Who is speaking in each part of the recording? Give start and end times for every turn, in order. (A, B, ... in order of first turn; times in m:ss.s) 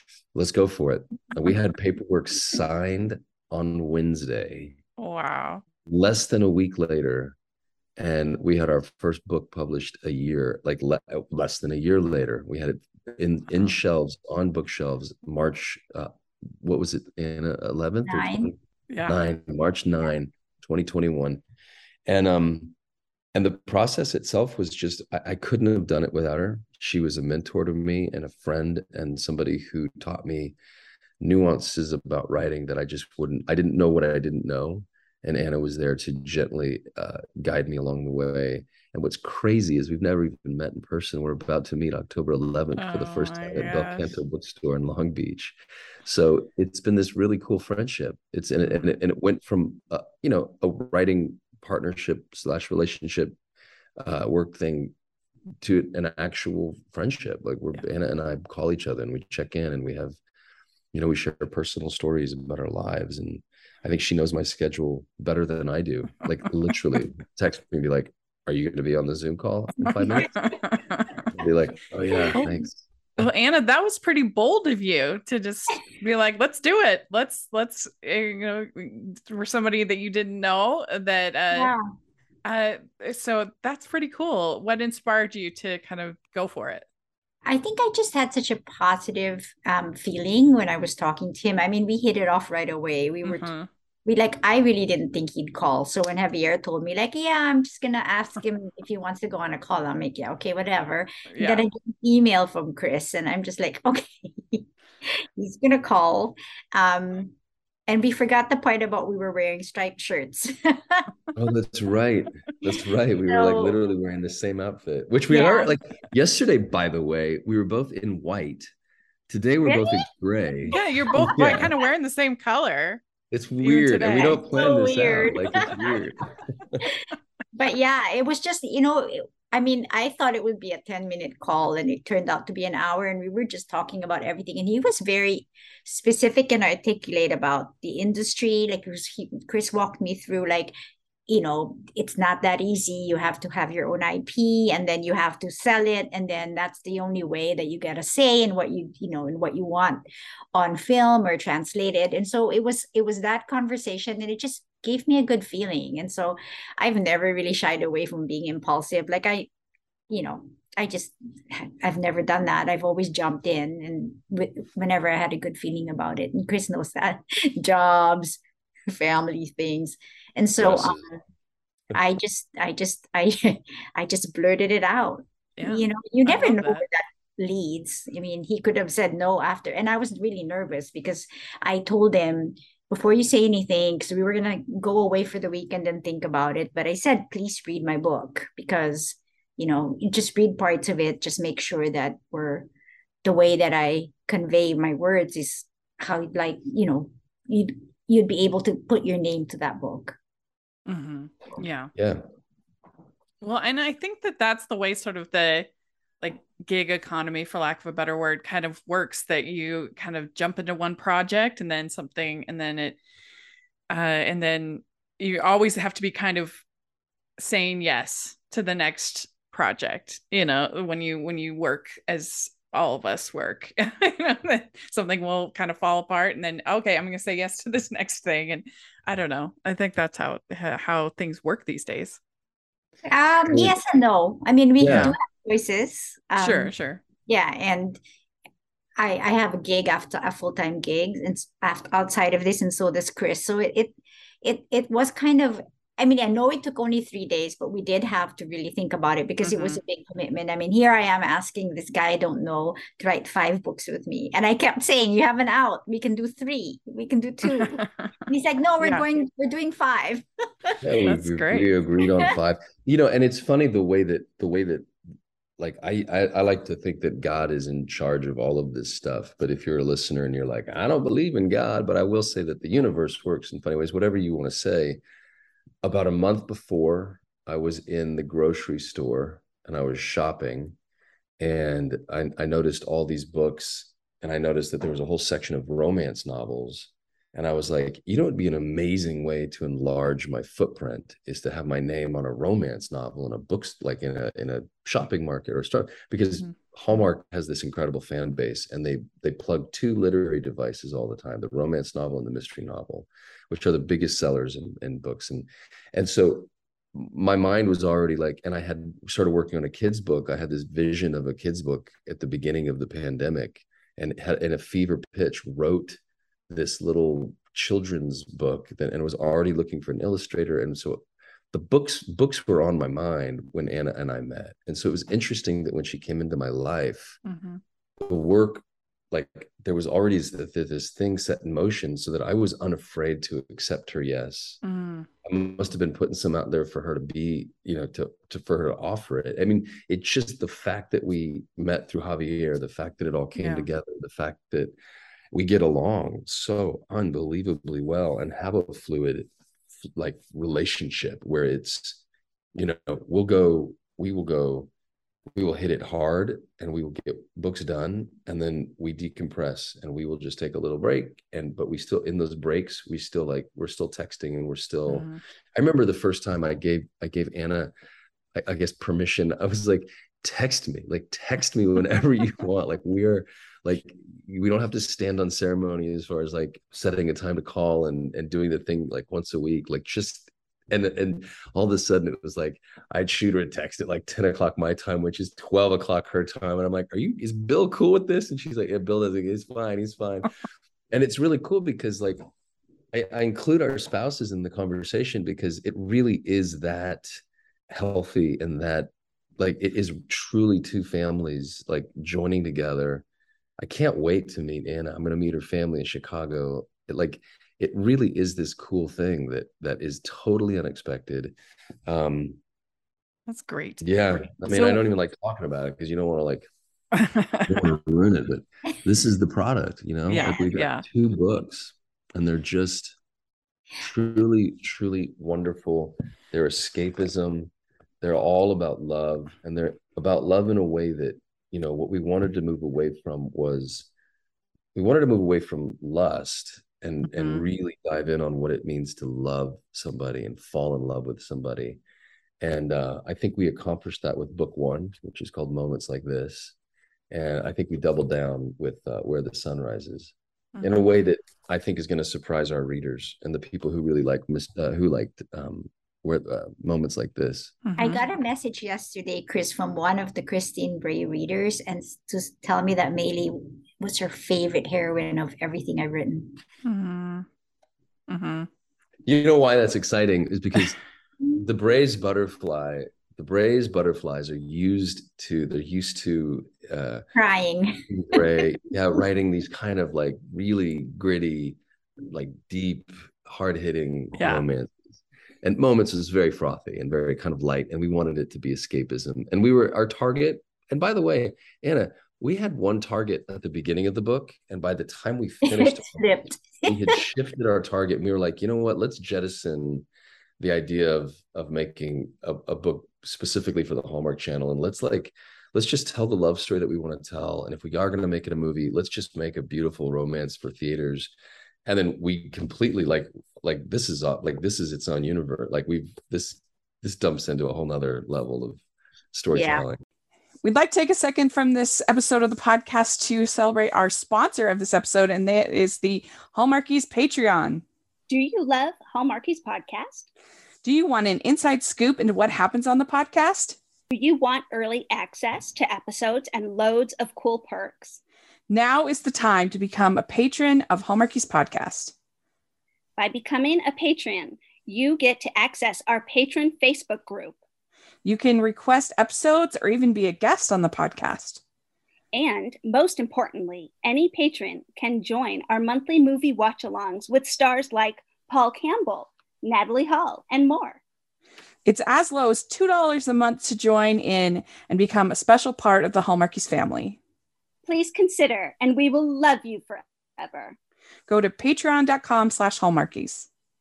0:00.3-0:04.8 A
0:05.0-0:05.6 B
0:05.9-0:07.4 A
0:08.0-0:21.4 A
0:18.1-0:18.5 C
0:18.9-0:19.2 B
0:22.1-0:22.8 A
0:23.3-0:30.6 A
0:31.2-0:53.4 A
0:42.8-0:44.1 B
0:54.0-0:54.9 A
0:55.6-1:00.2 A
1:00.9-1:10.4 A
1:10.1-1:11.1 B
1:11.3-1:13.2 A
1:13.2-1:21.7 B
1:21.5-1:21.8 C
1:22.4-1:26.9 B
1:27.4-1:33.5 C
1:33.2-1:33.7 B
1:34.1-1:47.3 C
1:41.3-1:41.6 B
1:47.9-1:51.1 C
1:51.3-1:58.7 A
1:53.2-1:53.8 C
1:55.3-1:55.8 C
1:59.3-2:01.7 A
1:59.7-2:00.0 C
2:00.7-2:01.2 C
2:00.7-2:03.0 B
2:03.3-2:06.8 A
2:03.6-2:04.4 B
2:04.0-2:05.7 C
2:07.6-2:20.7 C
2:21.3-2:30.0 C
2:30.5-2:39.5 C
2:40.1-2:48.4 C
2:48.9-2:51.2 C
2:50.6-2:51.0 A
2:51.9-3:12.7 C
2:55.6-2:56.8 B
3:13.2-3:20.2 C
3:20.9-3:21.9 B
3:22.0-3:22.2 A
3:23.4-3:25.7 B
3:26.2-3:33.0 B
3:33.9-3:36.6 B
3:37.4-3:52.2 B
3:53.1-3:56.7 C
3:54.8-3:55.2 A
3:54.8-3:55.2 B
3:56.4-3:57.0 B
3:57.2-3:58.0 C
3:59.0-4:20.2 C
4:09.4-4:09.8 B
4:17.6-4:17.9 B
4:20.8-4:24.9 A
4:21.0-4:21.7 B
4:25.6-4:35.0 A
4:35.8-4:40.8 A
4:41.4-5:27.2 A
5:27.2-5:27.6 B
5:28.0-5:34.6 A
5:34.6-5:35.1 B
5:35.2-5:44.7 A
5:43.4-5:43.7 B
5:45.3-5:49.3 A
5:49.8-5:52.0 A
5:52.5-5:54.7 A
5:55.3-6:07.7 A
6:04.9-6:05.2 B
6:08.3-6:30.3 A
6:30.9-6:32.2 A
6:32.9-6:37.1 A
6:37.7-6:43.0 A
6:43.6-6:51.3 A
6:51.9-6:52.4 A
6:53.3-6:53.8 B
6:53.8-6:56.5 A
6:54.4-6:54.8 B
6:56.9-6:57.6 B
6:57.4-7:03.0 A
7:00.1-7:00.8 B
7:03.8-7:13.9 A
7:14.7-7:21.8 A
7:17.2-7:17.4 B
7:22.4-7:26.6 A
7:27.1-7:37.6 A
7:37.6-7:38.0 B
7:37.8-7:46.4 C
7:46.6-7:47.3 B
7:48.1-7:48.5 B
7:49.0-7:50.8 A
7:51.3-7:57.1 A
7:57.2-7:58.2 C
7:57.9-8:04.8 A
8:04.2-8:04.4 B
8:05.4-8:16.0 A
8:15.4-8:17.0 C
8:16.6-8:19.8 A
8:20.4-8:31.1 A
8:31.7-8:38.6 A
8:39.1-8:39.8 A
8:39.3-8:39.6 C
8:40.4-8:47.6 B
8:48.1-8:50.1 D
8:50.6-8:53.6 B
8:53.9-8:58.0 D
8:58.5-9:01.9 B
9:03.0-9:07.4 D
9:08.0-9:11.4 B
9:12.1-9:20.8 D
9:21.6-9:27.0 B
9:27.6-9:30.6 D
9:31.1-9:33.3 B